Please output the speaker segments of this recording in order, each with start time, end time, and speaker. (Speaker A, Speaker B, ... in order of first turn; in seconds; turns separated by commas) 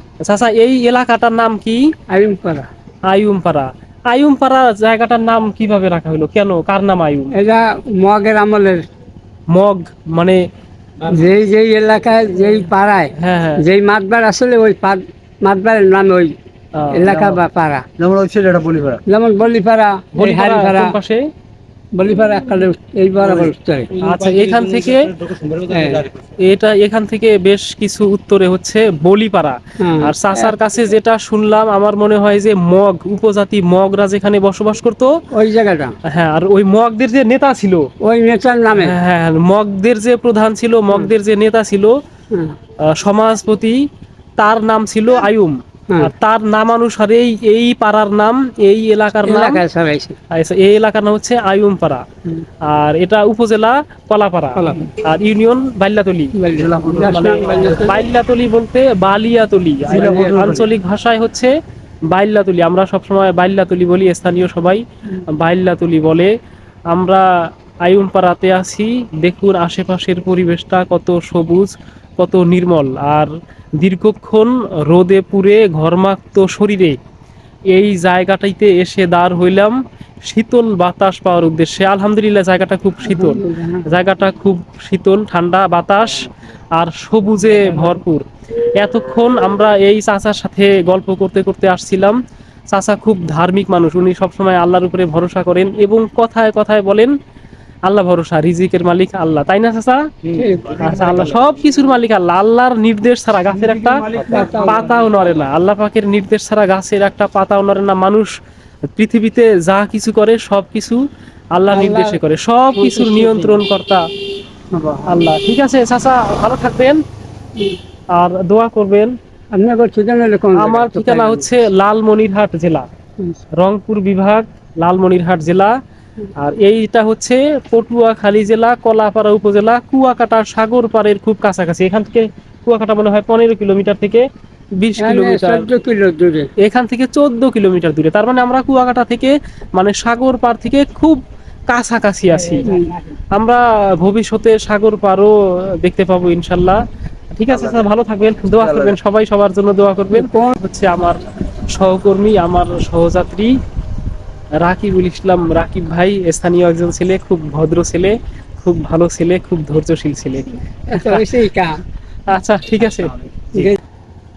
Speaker A: 0.2-1.9, Speaker B: 2.1-2.7, Speaker A: 3.1-7.3, Speaker B: 7.4-8.8, Speaker A: 9.5-10.4, Speaker B: 11.1-16.3, Speaker A: 13.2-13.6, Speaker A: 16.8-17.4, Speaker B: 16.9-17.9, Speaker C: 18.0-19.0, Speaker B: 19.1-21.0, Speaker A: 20.1-21.2, Speaker B: 22.0-23.9, Speaker C: 23.2-26.1, Speaker A: 24.0-25.1, Speaker B: 25.7-26.1, Speaker A: 26.4-35.1, Speaker B: 29.8-30.5, Speaker B: 35.3-36.0, Speaker A: 36.1-37.9, Speaker B: 38.0-39.0, Speaker A: 38.8-42.0, Speaker A: 42.9-43.8, Speaker A: 44.4-49.6, Speaker B: 49.2-50.2, Speaker A: 50.3-52.0, Speaker A: 52.6-56.3, Speaker B: 54.6-54.9, Speaker B: 56.4-58.0, Speaker C: 56.5-57.9, Speaker A: 57.0-61.5, Speaker C: 59.9-60.7, Speaker B: 59.9-60.5, Speaker A: 62.1-66.3, Speaker A: 66.9-67.2, Speaker A: 67.8-77.0, Speaker A: 77.7-92.2, Speaker B: 83.0-83.9, Speaker A: 92.7-97.1, Speaker A: 97.9-100.0, Speaker C: 100.3-101.3, Speaker B: 100.4-101.3, Speaker A: 100.8-108.3, Speaker C: 103.6-105.2, Speaker B: 104.1-105.0, Speaker A: 109.0-111.0, Speaker A: 111.5-114.0, Speaker B: 111.7-112.2, Speaker B: 112.7-113.6, Speaker B: 114.8-115.3, Speaker A: 115.0-117.0, Speaker A: 118.1-119.1, Speaker B: 119.5-121.6, Speaker A: 120.6-122.9, Speaker A: 123.6-125.8, Speaker A: 126.4-134.2, Speaker A: 134.8-135.7, Speaker B: 135.0-136.5, Speaker A: 136.6-142.7, Speaker B: 142.6-143.0, Speaker A: 143.3-146.8, Speaker A: 147.3-151.2, Speaker C: 147.5-147.9, Speaker C: 148.5-149.0, Speaker B: 150.1-150.6, Speaker A: 151.7-153.5, Speaker A: 154.6-161.4, Speaker B: 160.9-161.8, Speaker A: 162.3-163.7, Speaker B: 163.5-163.8